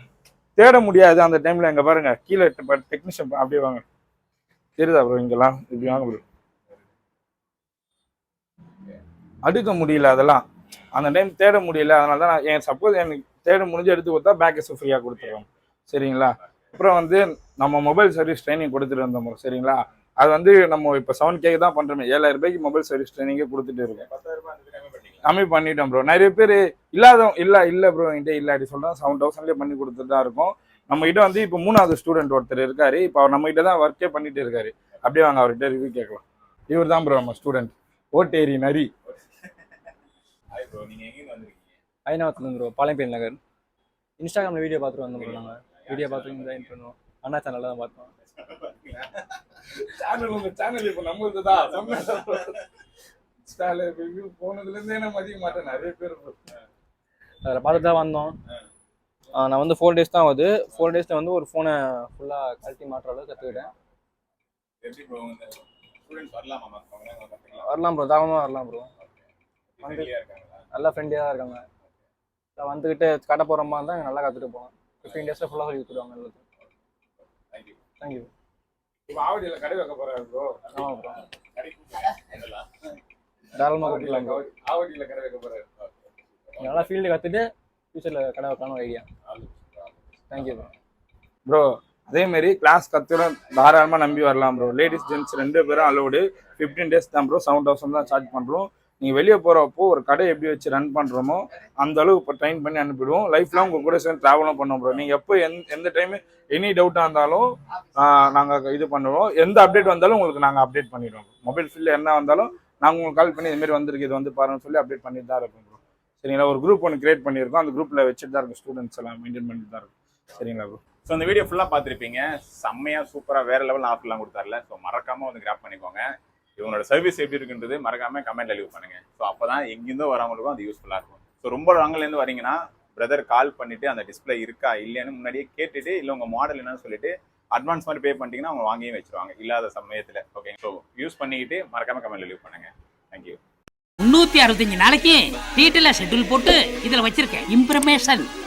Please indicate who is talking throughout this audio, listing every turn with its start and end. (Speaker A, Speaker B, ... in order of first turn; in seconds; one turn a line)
Speaker A: 0.6-3.8
Speaker A: 4.8-6.2
Speaker A: 9.4-24.0
Speaker B: 23.9-25.2
Speaker A: 25.2-38.9
Speaker B: 39.0-39.5
Speaker B: 40.5-41.7
Speaker C: 42.0-43.4
Speaker C: 44.2-48.1
Speaker B: 45.1-46.7
Speaker B: 48.2-49.3
Speaker A: 49.8-52.6
Speaker A: 53.4-56.4
Speaker C: 57.4-58.4
Speaker C: 59.3-63.7
Speaker B: 64.8-67.7
Speaker C: 67.6-68.9
Speaker B: 69.8-70.6
Speaker C: 69.8-70.1
Speaker C: 70.7-71.6
Speaker C: 72.6-76.4
Speaker B: 77.5-77.8
Speaker C: 78.0-78.3
Speaker A: 79.1-80.7
Speaker C: 80.7-81.2
Speaker B: 81.5-82.7
Speaker C: 83.5-84.4
Speaker A: 83.8-84.3
Speaker B: 84.0-86.9
Speaker C: 86.6-89.0
Speaker B: 89.2-90.7
Speaker C: 90.3-90.7
Speaker A: 91.5-120.8
Speaker B: 121.0-126.0
Speaker B: 126.6-143.4
Speaker D: 144.0-148.3